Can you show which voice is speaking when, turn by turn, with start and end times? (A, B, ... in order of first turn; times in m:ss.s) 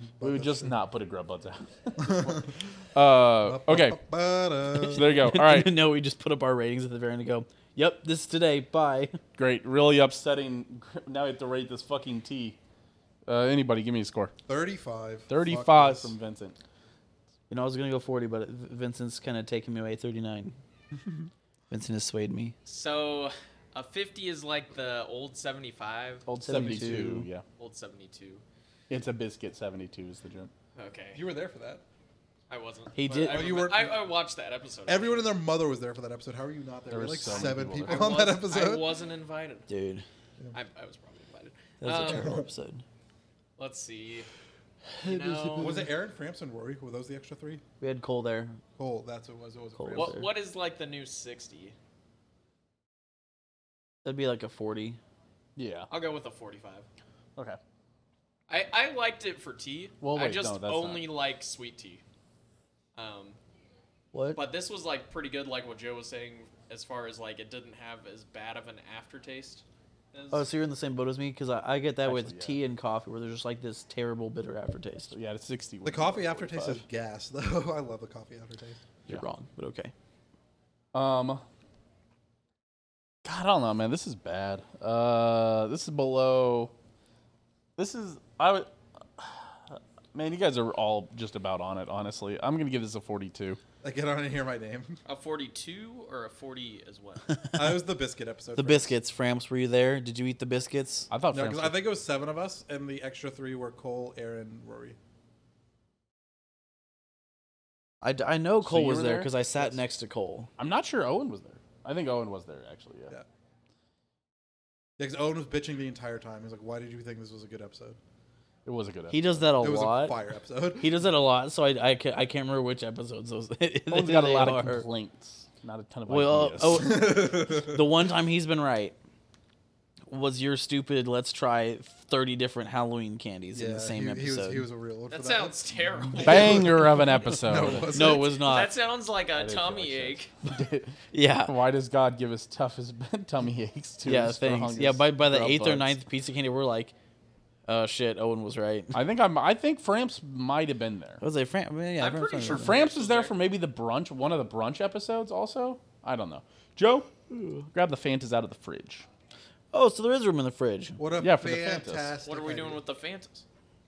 0:00.2-0:00.8 A
0:00.2-0:04.0 B
0:02.0-0:02.6 A
0:03.4-0:05.2 A
0:04.8-0:05.7 B
0:05.1-0:09.2 C
0:09.4-0:12.6 B
0:13.3-0:14.3 B
0:14.5-0:16.2 A
0:15.3-0:16.6 B
0:17.5-0:20.6 C
0:21.7-0:22.6 C
0:22.7-0:26.3 D
0:26.3-0:27.3 C
0:26.4-0:27.4 B
0:27.6-0:28.4 D
0:28.9-0:30.5 B
0:30.8-0:31.2 D
0:31.1-0:31.8 A
0:32.5-0:35.3 D
0:33.0-0:33.5 C
0:33.2-0:34.1 A
0:34.9-0:38.9 A
0:36.9-0:38.2 B
0:37.8-0:39.7 D
0:39.7-0:40.0 C
0:40.5-0:42.4 D
0:41.8-0:42.8 C
0:42.0-0:42.5 A
0:43.6-0:44.3 D
0:44.9-0:45.9 C
0:45.0-0:45.8 D
0:45.6-0:47.6 A
0:47.8-0:48.6 C
0:48.8-0:50.2 A
0:49.8-0:50.3 C
0:49.9-0:51.8 D
0:54.0-0:55.0 C
0:55.6-0:55.9 B
0:55.9-0:56.9 D
0:58.5-1:02.0 D
1:00.0-1:01.1 B
1:03.0-1:03.4 D
1:04.1-1:04.4 C
1:04.4-1:10.5 D
1:10.3-1:15.1 C
1:12.0-1:12.6 B
1:15.1-1:16.8 B
1:15.8-1:18.8 A
1:19.1-1:19.9 C
1:20.9-1:21.4 B
1:23.2-1:26.7 B
1:27.8-1:33.6 B
1:33.8-1:35.0 A
1:35.0-1:37.3 D
1:37.5-1:39.0 A
1:38.6-1:41.1 C
1:41.1-1:41.9 B
1:41.3-1:45.0 A
1:48.0-1:50.5 C
1:48.6-1:49.8 B
1:50.6-1:53.2 B
1:55.0-1:58.0 A
1:58.6-1:59.5 B
1:59.1-2:00.2 C
1:59.6-2:01.0 A
2:00.8-2:04.9 C
2:03.9-2:07.0 B
2:06.1-2:09.0 C
2:06.7-2:07.8 A
2:10.1-2:14.7 C
2:13.5-2:18.4 A
2:15.1-2:17.1 D
2:16.2-2:17.9 B
2:17.9-2:18.7 C
2:18.2-2:20.3 D
2:19.3-2:26.0 B
2:21.1-2:21.5 C
2:24.0-2:26.9 C
2:27.7-2:29.0 C
2:28.9-2:31.2 B
2:31.2-2:32.8 C
2:32.0-2:33.4 D
2:32.4-2:37.1 B
2:37.3-2:37.7 C
2:37.7-2:39.1 B
2:39.7-2:41.0 C
2:41.0-2:42.8 A
2:41.2-2:42.2 B
2:42.2-2:43.4 D